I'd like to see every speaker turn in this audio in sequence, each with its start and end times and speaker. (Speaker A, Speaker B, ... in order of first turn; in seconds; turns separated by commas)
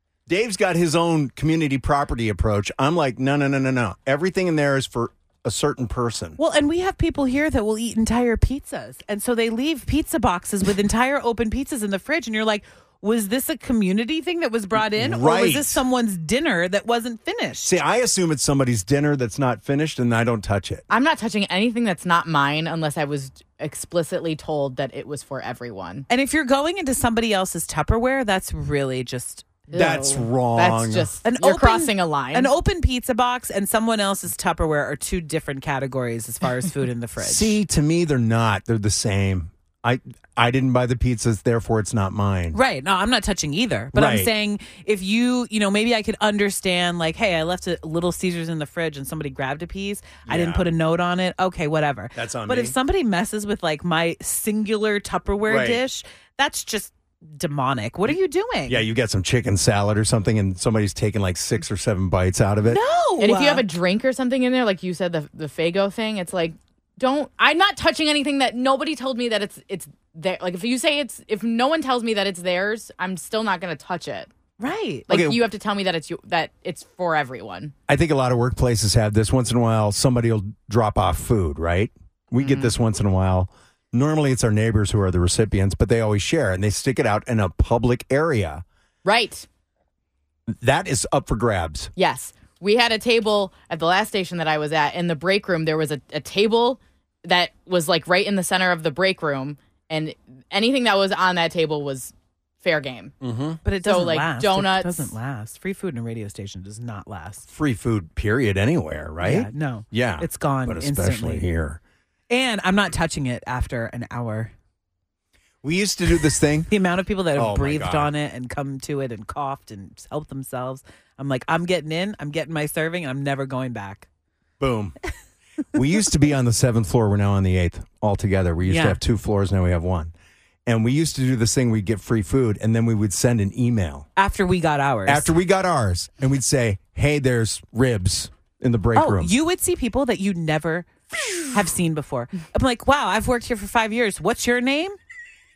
Speaker A: 0.3-6.4, Speaker B: 6.4-17.8, Speaker A: 14.7-15.8, Speaker A: 17.6-20.8, Speaker C: 20.9-26.1, Speaker B: 26.1-29.7, Speaker C: 29.7-32.5, Speaker A: 29.7-31.1, Speaker B: 31.2-37.5, Speaker A: 37.2-42.6, Speaker B: 42.5-58.8, Speaker A: 43.9-44.3, Speaker A: 50.2-50.7, Speaker A: 52.1-52.7, Speaker A: 55.5-55.8, Speaker A: 58.7-62.8, Speaker B: 62.7-63.7, Speaker C: 63.2-74.3, Speaker B: 74.6-75.1, Speaker C: 75.1-77.7, Speaker A: 75.1-75.4, Speaker A: 77.9-88.6, Speaker C: 82.4-82.7, Speaker C: 89.0-89.5, Speaker A: 90.6-91.9, Speaker C: 92.0-103.1, Speaker A: 103.2-103.6, Speaker B: 103.6-107.5, Speaker C: 103.8-105.1, Speaker A: 107.5-111.8, Speaker B: 109.2-111.5, Speaker B: 112.3-114.5, Speaker A: 115.6-116.7, Speaker B: 116.7-124.1, Speaker A: 117.3-118.1, Speaker A: 124.6-125.0, Speaker A: 125.7-130.1, Speaker B: 128.6-129.0, Speaker A: 130.7-134.1, Speaker B: 134.2-135.3, Speaker A: 135.1-139.3, Speaker B: 138.9-140.9, Speaker B: 141.4-145.0